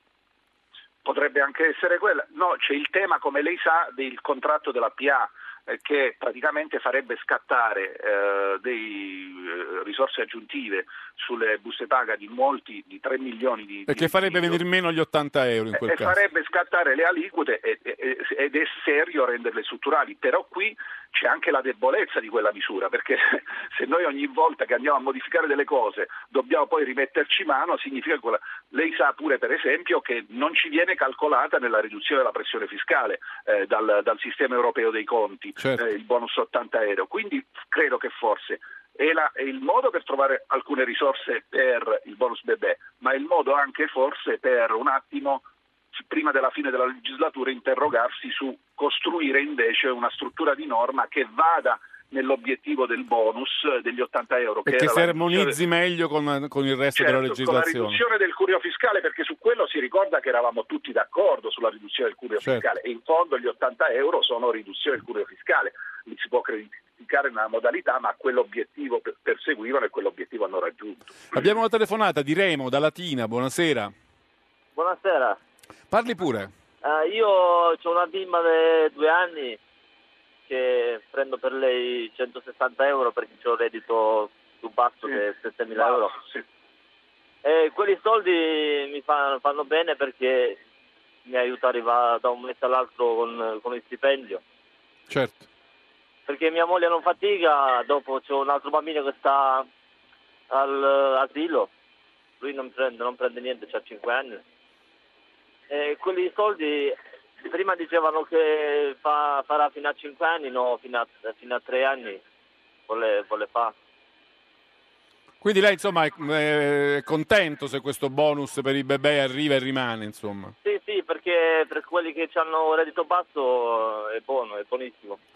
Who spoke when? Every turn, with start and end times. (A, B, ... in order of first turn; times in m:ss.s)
0:01.0-0:14.6 A
0:13.9-0:16.1 B
0:15.7-0:45.4 A
0:35.6-0:35.8 B
0:46.0-0:55.6 A
0:54.7-0:58.0 B
0:57.0-1:11.5 A
1:11.3-1:13.9 B
1:14.8-1:15.4 C
1:15.9-1:16.5 B
1:16.8-1:19.6 C
1:20.5-1:26.2 C
1:25.8-1:26.4 A
1:27.4-1:30.6 C
1:31.3-1:34.4 C
1:35.1-1:35.5 B
1:36.3-1:39.7 C
1:40.5-1:41.7 C
1:42.4-1:44.4 C
1:45.7-1:52.2 C
1:52.9-1:53.7 C
1:55.4-2:00.5 B
2:00.6-2:05.2 C